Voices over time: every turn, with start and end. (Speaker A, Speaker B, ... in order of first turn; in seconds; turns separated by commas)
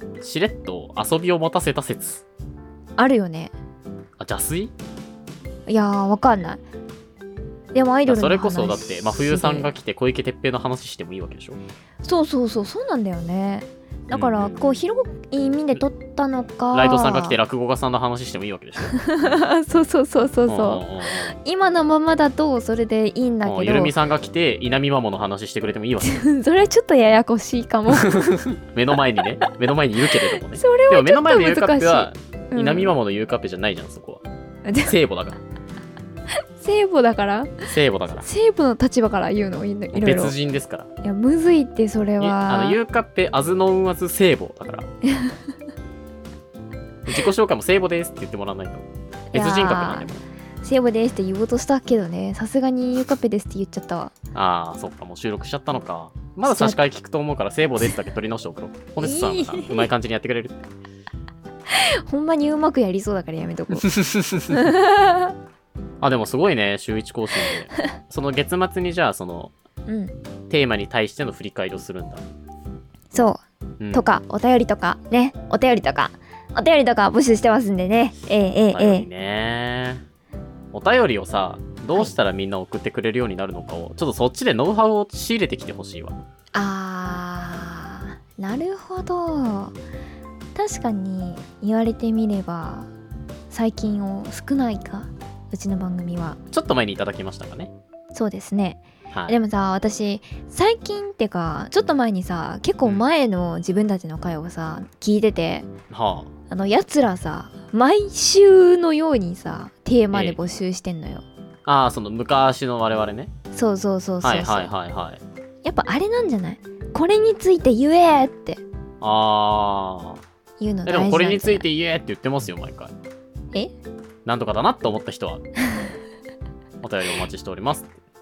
Speaker A: 0.2-2.2, Speaker B: 3.0-3.5, Speaker A: 4.2-4.7, Speaker B: 5.7-6.6, Speaker B: 7.7-9.7, Speaker A: 8.1-11.6, Speaker B: 12.0-17.4, Speaker A: 14.1-14.8, Speaker A: 16.7-19.4, Speaker B: 18.9-20.8, Speaker A: 20.5-21.4, Speaker B: 21.4-23.9, Speaker A: 23.4-26.2, Speaker B: 26.0-28.2, Speaker A: 28.0-34.2, Speaker B: 30.5-32.9, Speaker B: 34.6-34.9, Speaker A: 34.8-35.4, Speaker B: 36.6-37.5, Speaker A: 37.6-38.2, Speaker B: 38.2-40.3, Speaker A: 39.9-40.9, Speaker B: 41.0-42.8, Speaker A: 42.2-44.9, Speaker B: 45.0-45.4, Speaker A: 47.0-50.2, Speaker B: 49.3-50.1, Speaker B: 50.6-54.1, Speaker A: 54.3-60.7, Speaker B: 56.5-56.8, Speaker B: 59.0-59.9, Speaker B: 61.7-63.9, Speaker A: 63.8-64.6, Speaker B: 64.5-65.3, Speaker A: 66.0-69.5, Speaker B: 69.9-70.1, Speaker A: 70.5-72.2, Speaker B: 73.1-73.4, Speaker A: 73.8-74.0, Speaker B: 73.9-79.1, Speaker A: 78.7-80.0, Speaker A: 80.7-86.2, Speaker B: 86.5-89.7, Speaker B: 90.5-92.9, Speaker B: 93.5-96.4, Speaker A: 96.5-97.7, Speaker B: 98.1-105.7, Speaker A: 99.1-99.3, Speaker A: 105.9-106.3, Speaker B: 106.5-111.2, Speaker A: 110.1-110.4, Speaker A: 111.7-113.3, Speaker B: 113.5-114.7, Speaker A: 114.2-115.2, Speaker B: 115.6-118.6, Speaker A: 119.0-120.2, Speaker B: 120.6-121.6, Speaker A: 120.8-122.9, Speaker A: 124.2-125.4, Speaker A: 126.8-128.0